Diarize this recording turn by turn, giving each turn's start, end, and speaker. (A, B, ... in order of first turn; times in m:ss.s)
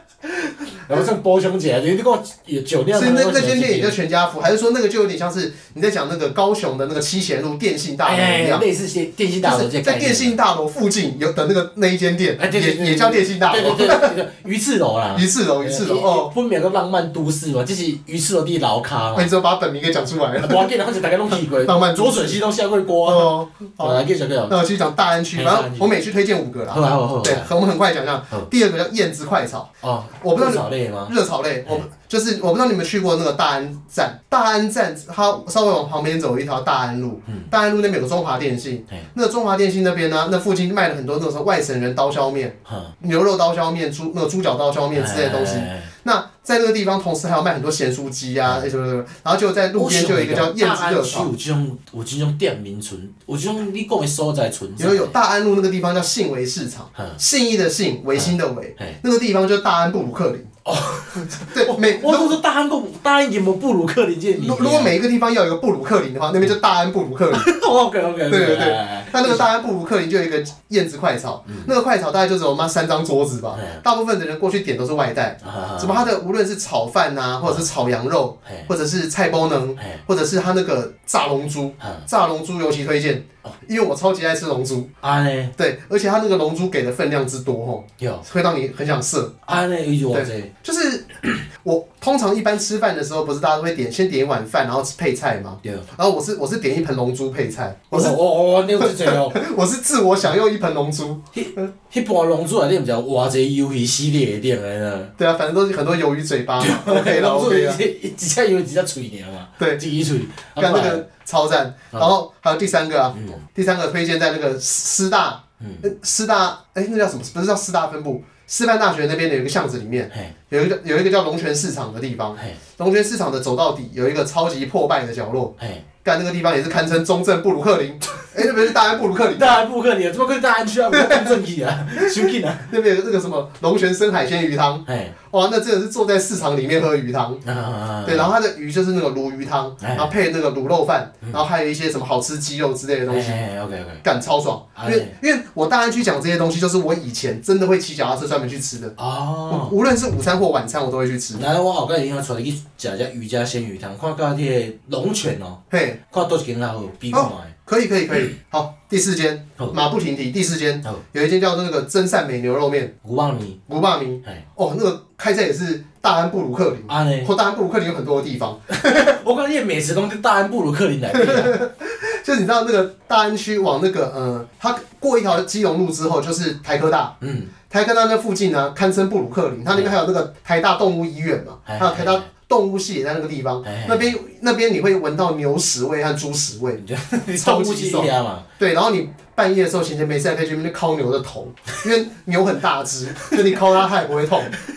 0:00.2-0:04.0 A
0:02.9-0:08.7 B
0:08.0-0:10.4 A
0:09.4-0:14.2 B
0:12.4-0:19.3 A
0:15.1-0:16.3 B
0:19.1-0:20.7 B
0:20.4-0:24.6 A
0:21.6-0:22.4 B
0:23.0-0:51.3 B
0:25.3-0:25.9 A
0:26.7-0:27.5 A
0:29.8-0:31.1 A
0:42.6-0:42.9 A
0:44.9-0:45.9 A
0:49.7-0:55.1 A
0:54.8-1:00.5 B
0:56.9-0:57.2 A
0:58.1-0:59.0 A
1:00.6-1:04.9 A
1:01.5-1:02.4 B
1:04.3-1:07.5 B
1:07.3-1:09.4 A
1:08.3-1:24.9 B
1:11.4-1:11.7 A
1:13.5-1:13.8 A
1:15.4-1:16.1 A
1:19.8-1:20.0 A
1:21.8-1:22.1 A
1:25.0-1:25.5 A
1:25.6-1:29.3 B
1:28.0-1:28.2 A
1:29.4-1:30.5 A
1:30.1-1:38.2 B
1:37.9-1:39.4 A
1:38.8-1:41.6 B
1:41.3-1:45.1 A
1:45.2-1:47.8 B
1:46.6-1:51.0 A
1:50.6-2:09.6 B
1:53.1-1:53.4 A
1:55.6-1:55.9 A
2:05.6-2:05.8 A
2:09.3-2:12.7 A
2:10.9-2:11.4 B
2:12.0-2:17.4 B
2:14.8-2:15.1 A
2:17.4-2:18.3 A
2:18.0-2:23.4 B
2:19.8-2:20.1 A
2:23.1-2:24.0 A
2:24.0-2:28.9 B
2:24.8-2:25.1 A
2:29.0-2:29.7 A
2:29.5-2:31.4 B
2:31.3-2:37.5 A
2:35.7-2:36.0 B
2:37.1-2:42.9 B
2:43.0-2:43.6 A
2:43.7-2:49.2 B
2:46.9-2:47.3 A
2:48.7-2:51.6 A
2:51.1-2:57.1 B
2:57.2-2:57.5 A
2:57.7-3:06.8 B
3:01.6-3:02.3 A
3:03.6-3:04.2 A
3:06.8-3:08.4 A
3:07.4-3:14.5 B
3:13.2-3:13.6 A